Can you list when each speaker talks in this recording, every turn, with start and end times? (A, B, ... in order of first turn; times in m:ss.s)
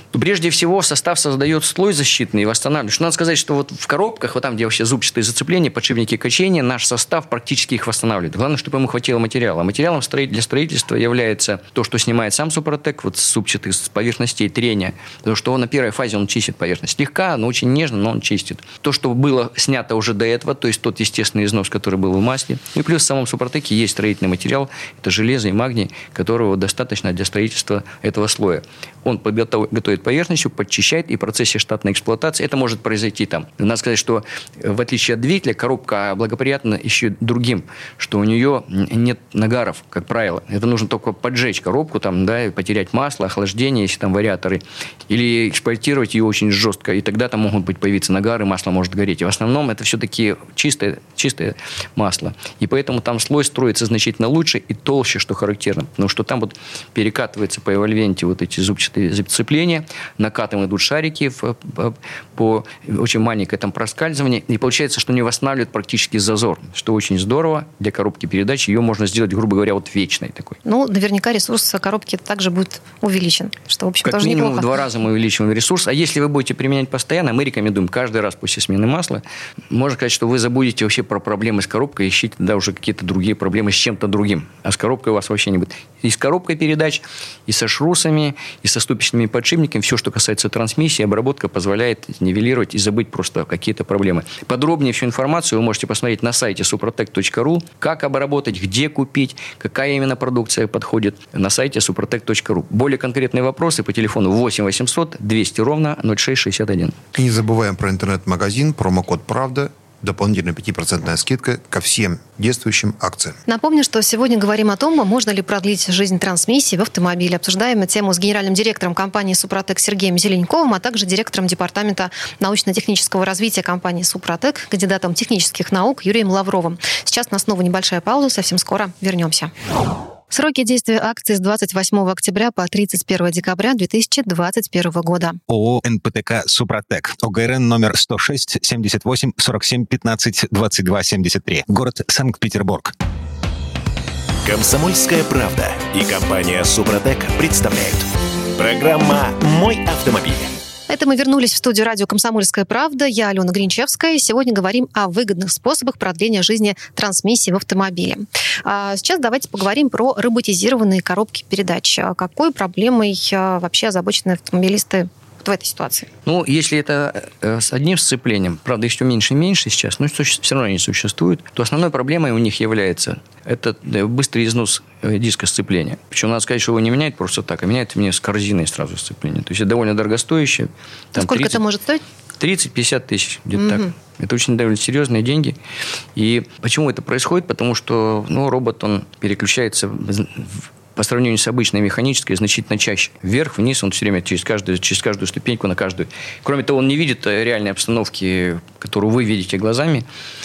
0:00.1-1:10.6 A
1:10.6-1:14.7 B
1:14.0-1:47.0 A
1:47.2-1:53.4 C
1:53.5-2:09.5 B
2:10.3-2:15.4 B
2:15.5-2:22.9 D
2:24.4-2:30.6 E
2:30.9-2:46.1 B
2:46.2-3:01.6 A
3:01.2-3:02.0 B
3:02.4-3:05.6 A
3:03.6-3:03.9 B
3:06.2-3:20.0 A